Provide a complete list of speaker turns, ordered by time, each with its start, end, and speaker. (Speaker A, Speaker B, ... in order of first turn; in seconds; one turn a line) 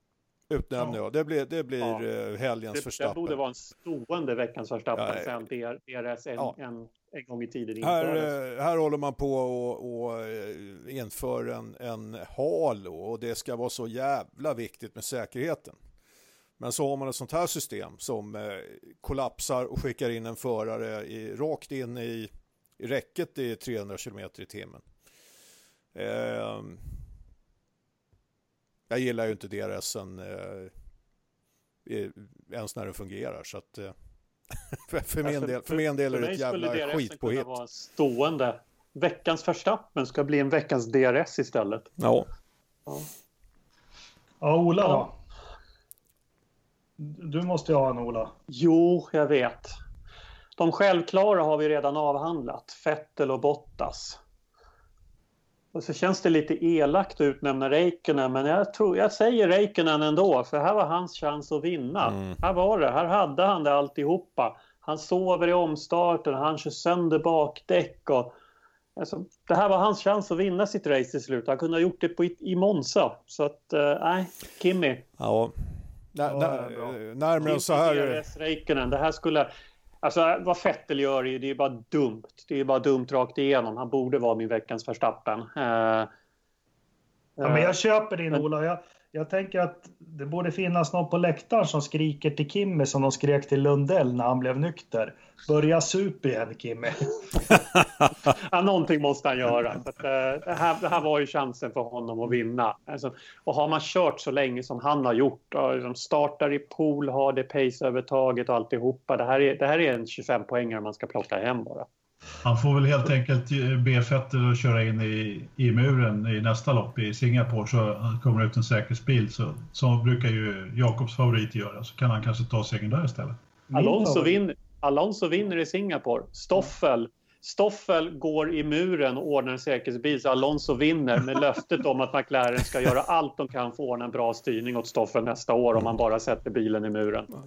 Speaker A: 0.5-3.4
Speaker B: 2.7-8.3
Speaker A: 5.0-5.3
Speaker A: 7.8-15.8
Speaker A: 16.6-24.9
Speaker A: 25.9-27.0
Speaker A: 28.9-30.7
Speaker A: 31.9-34.0
Speaker A: 34.5-37.5
Speaker B: 35.2-41.9
Speaker A: 42.0-42.3
Speaker C: 44.4-45.1
Speaker C: 47.0-48.3
Speaker B: 48.5-49.8
Speaker B: 50.6-54.2
Speaker B: 55.7-68.3
Speaker A: 62.1-62.4
Speaker B: 69.0-75.1
Speaker A: 75.2-78.2
Speaker C: 76.2-77.0
Speaker B: 77.4-79.5
Speaker B: 80.0-86.1
Speaker B: 87.4-87.8
Speaker C: 87.4-97.6
Speaker B: 98.2-111.9
Speaker D: 112.4-123.4
Speaker C: 123.7-124.4
Speaker B: 123.7-137.3